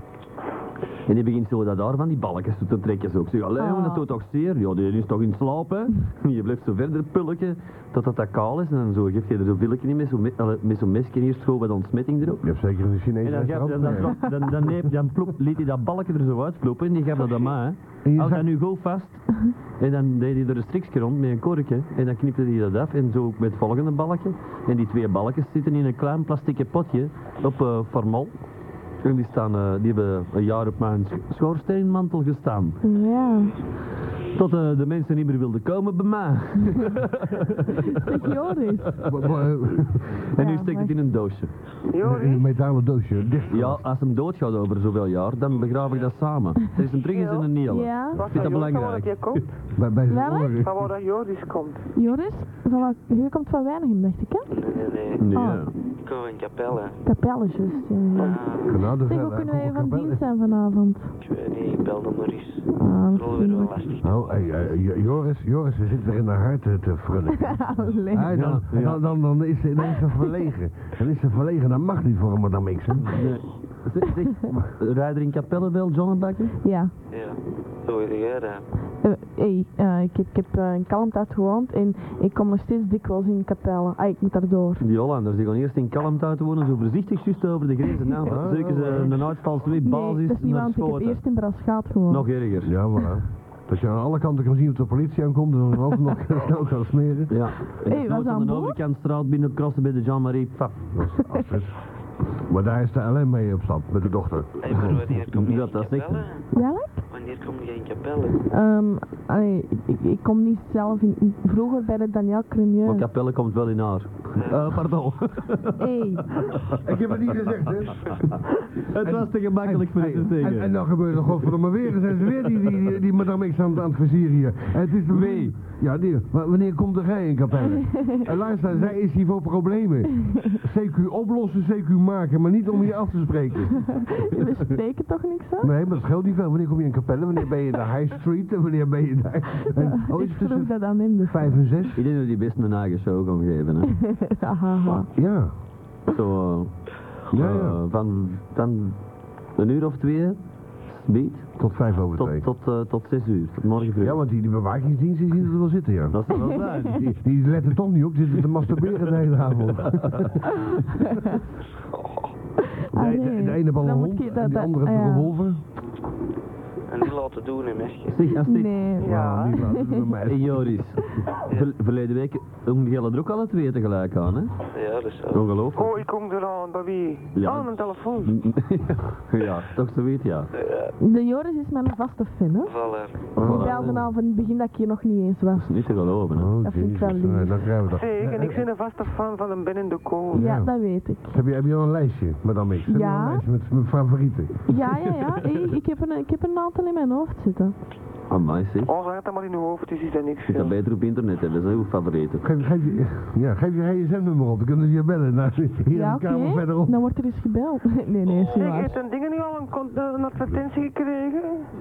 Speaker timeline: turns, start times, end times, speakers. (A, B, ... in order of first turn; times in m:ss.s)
0:01.1-0:12.5 A
0:03.6-0:04.0 B
0:12.4-0:14.6 C
0:13.2-0:28.3 A
0:18.0-0:18.5 C
0:29.0-0:32.8 A
0:32.8-0:33.5 B
0:34.3-0:37.8 A
0:37.9-0:38.9 B
0:39.1-0:40.0 C
0:39.8-0:41.5 A
0:40.4-0:41.0 B
0:41.9-0:42.4 D
0:42.0-0:43.8 C
0:43.5-0:49.4 A
0:47.1-0:47.5 D
0:47.7-0:48.2 B
0:48.1-0:49.6 D
0:49.8-0:50.8 C
0:50.1-0:50.6 B
0:50.6-0:51.9 D
0:52.0-0:54.5 B
0:54.5-0:55.3 E
0:55.2-0:55.7 A
0:55.3-0:55.7 B
0:55.8-0:57.0 E
0:57.0-0:58.5 B
0:58.2-0:58.8 E
0:58.7-1:00.2 C
0:59.0-1:01.1 B
1:01.2-1:04.8 E
1:02.7-1:03.7 B
1:04.0-1:13.3 C
1:07.5-1:08.4 B
1:08.3-1:09.0 A
1:13.0-1:16.6 A
1:16.6-1:16.9 B
1:17.1-1:18.7 E
1:19.0-1:24.8 B
1:24.8-1:31.4 A
1:28.2-1:29.2 C
1:29.8-1:32.3 B
1:32.1-1:32.7 A
1:32.6-1:37.4 C
1:37.3-1:41.0 A
1:37.9-1:38.8 B
1:40.9-1:41.8 C
1:42.5-1:45.1 C
1:44.6-1:48.4 E
1:44.8-1:46.4 A
1:46.5-1:47.0 B
1:48.5-1:53.1 B
1:52.8-1:55.8 A
1:54.4-1:54.8 E
1:55.8-1:56.2 B
1:56.8-1:58.4 C
1:58.9-2:01.5 A
1:59.0-2:14.2 C
2:05.1-2:05.6 A
2:07.9-2:08.2 B
2:14.2-2:15.7 B
2:15.6-2:22.0 C
2:20.1-2:21.6 B
2:22.0-2:24.0 A
2:24.1-2:25.1 B
2:25.0-2:25.5 C
2:26.1-2:29.0 A
2:27.3-2:27.8 C
2:29.6-2:34.2 A
2:31.6-2:32.5 C
2:34.0-2:40.4 C
2:36.1-2:37.1 A
2:36.5-2:36.8 B
2:39.7-2:40.3 A
2:42.9-2:45.3 B
2:42.9-2:45.6 C
2:46.9-2:48.3 E
2:48.1-2:48.9 A
2:48.5-2:50.0 B
2:49.0-2:50.8 C
2:49.0-2:49.6 D
2:50.3-2:54.5 A
2:54.7-2:55.5 E
2:55.3-2:56.0 A
2:55.8-2:58.3 D
2:57.4-3:00.5 A
3:00.6-3:00.9 E
3:01.0-3:02.7 B
3:02.7-3:03.4 E
3:03.3-3:05.7 B
3:03.4-3:04.0 C
3:03.4-3:04.1 A
3:05.6-3:06.5 A
3:06.3-3:08.6 C
3:06.6-3:07.7 B
3:07.9-3:10.5 D
3:10.3-3:14.7 C
3:10.4-3:11.4 B
3:12.9-3:13.4 B
3:14.7-3:17.8 B
3:18.3-3:18.9 A
3:18.9-3:20.7 D
3:20.5-3:22.5 A
3:22.4-3:27.0 C
3:25.9-3:28.9 B
3:28.6-3:31.7 D